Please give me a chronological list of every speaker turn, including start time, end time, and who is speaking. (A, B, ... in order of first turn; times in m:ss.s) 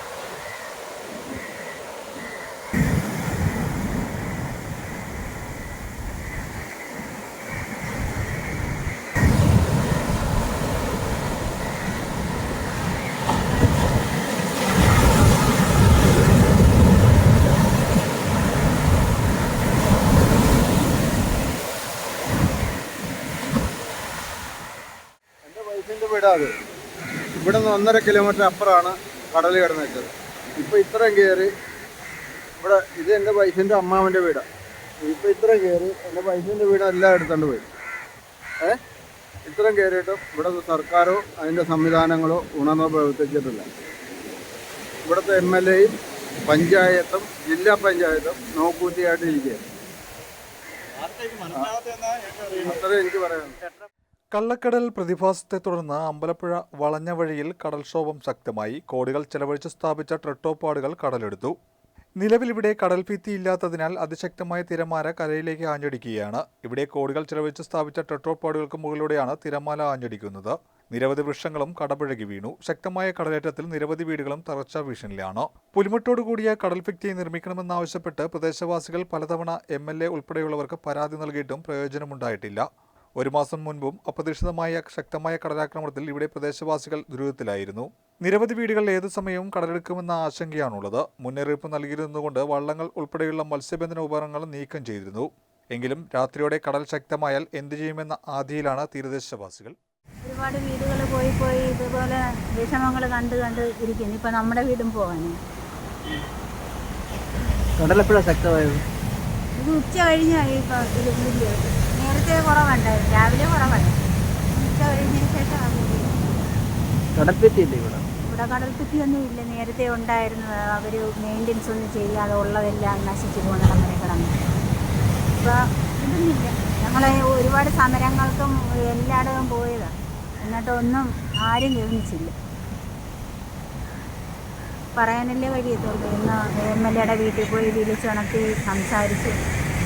0:25.4-0:26.6 A
0:27.4-0:31.5 A
0:32.6-0:34.4 A
0:35.0-0:37.7 A
0:39.4-0:43.7 A
0:45.1-0:45.9 A
0:46.5-0:49.6 A
0:51.5-0:51.8 A
0:52.4-0:53.6 A
0:54.3-1:01.6 B
1:02.2-1:22.7 B
1:23.2-1:39.8 B
1:40.2-1:45.4 C
1:47.8-1:48.8 D
1:49.6-1:54.0 C
1:54.5-1:56.2 C
1:57.1-1:58.0 D
1:58.3-2:04.3 C
2:05.4-2:12.3 C
2:15.0-2:19.4 C